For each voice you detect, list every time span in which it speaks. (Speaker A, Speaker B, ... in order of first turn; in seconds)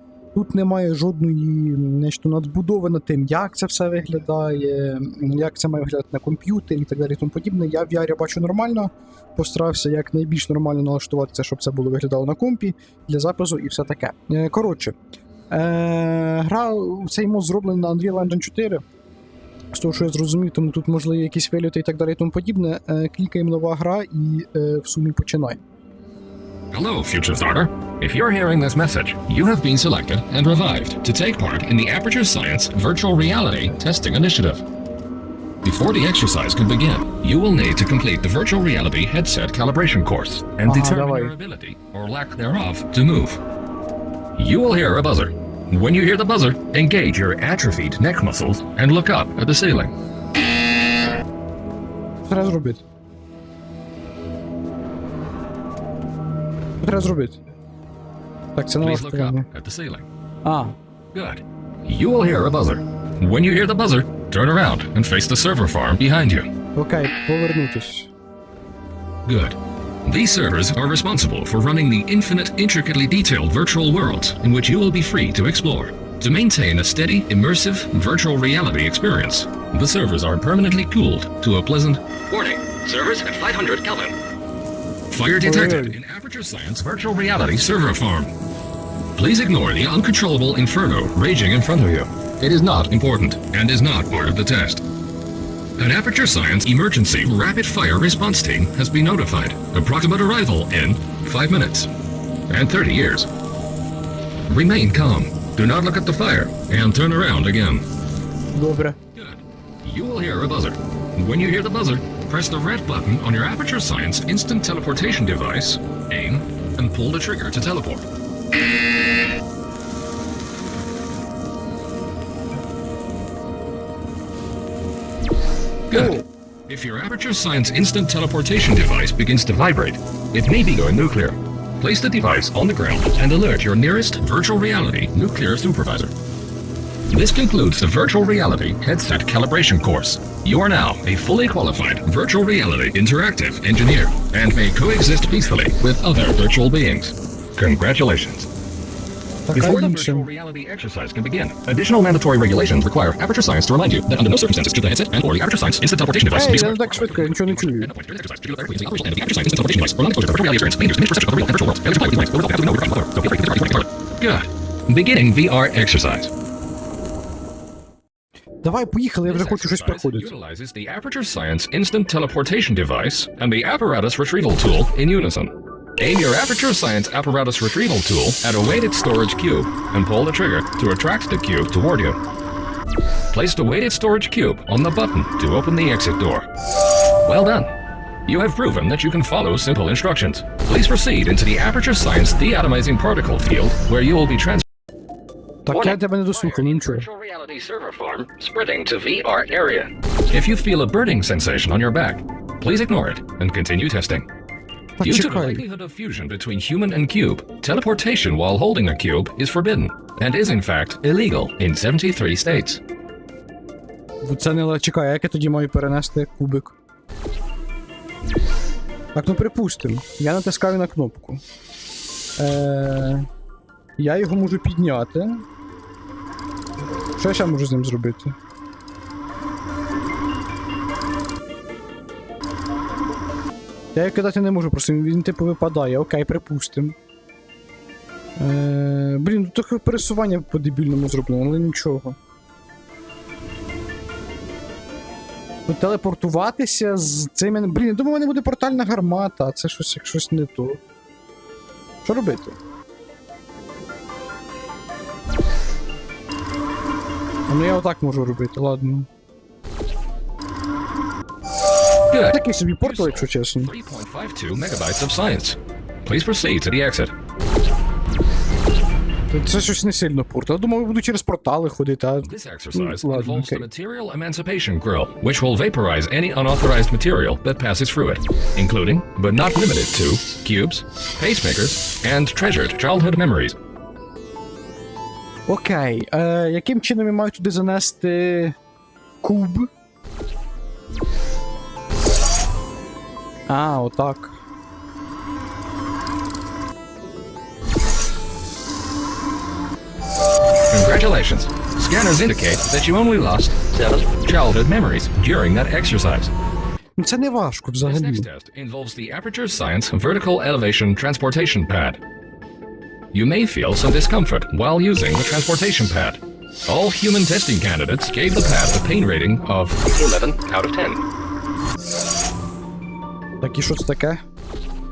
Speaker A: 0.3-15.0, 15.5-18.8, 19.7-25.6, 40.6-41.4, 52.2-52.8, 56.8-57.4, 58.5-59.5, 60.4-60.8, 66.8-68.1, 85.4-86.0, 108.5-109.0, 125.9-126.2, 149.5-150.3, 156.3-157.9, 168.6-170.3, 195.7-197.1, 205.0-205.6, 214.2-216.8, 219.1-221.4, 222.4-223.3, 224.0-225.4, 227.2-228.3, 233.9-237.0, 238.4-242.2, 245.7-250.8, 252.0-252.6, 257.5-259.1, 262.3-263.7, 269.3-273.6, 285.5-288.6, 289.2-289.7, 293.5-294.4, 307.0-308.3, 323.4-324.2
Speaker B: 26.7-34.6, 35.6-43.4, 44.4-49.9, 58.8-60.1, 61.1-66.5, 69.2-84.2, 85.1-88.3, 89.2-94.8, 95.8-101.9, 102.5-103.3, 104.5-107.8, 109.1-118.1, 125.9-136.1, 137.1-148.5, 149.5-166.3, 169.2-182.2, 183.3-186.5, 187.2-187.7, 188.2-194.6, 195.7-204.3, 205.0-212.8, 262.1-267.1, 272.2-283.6, 300.7-306.3, 307.8-312.0, 313.1-321.0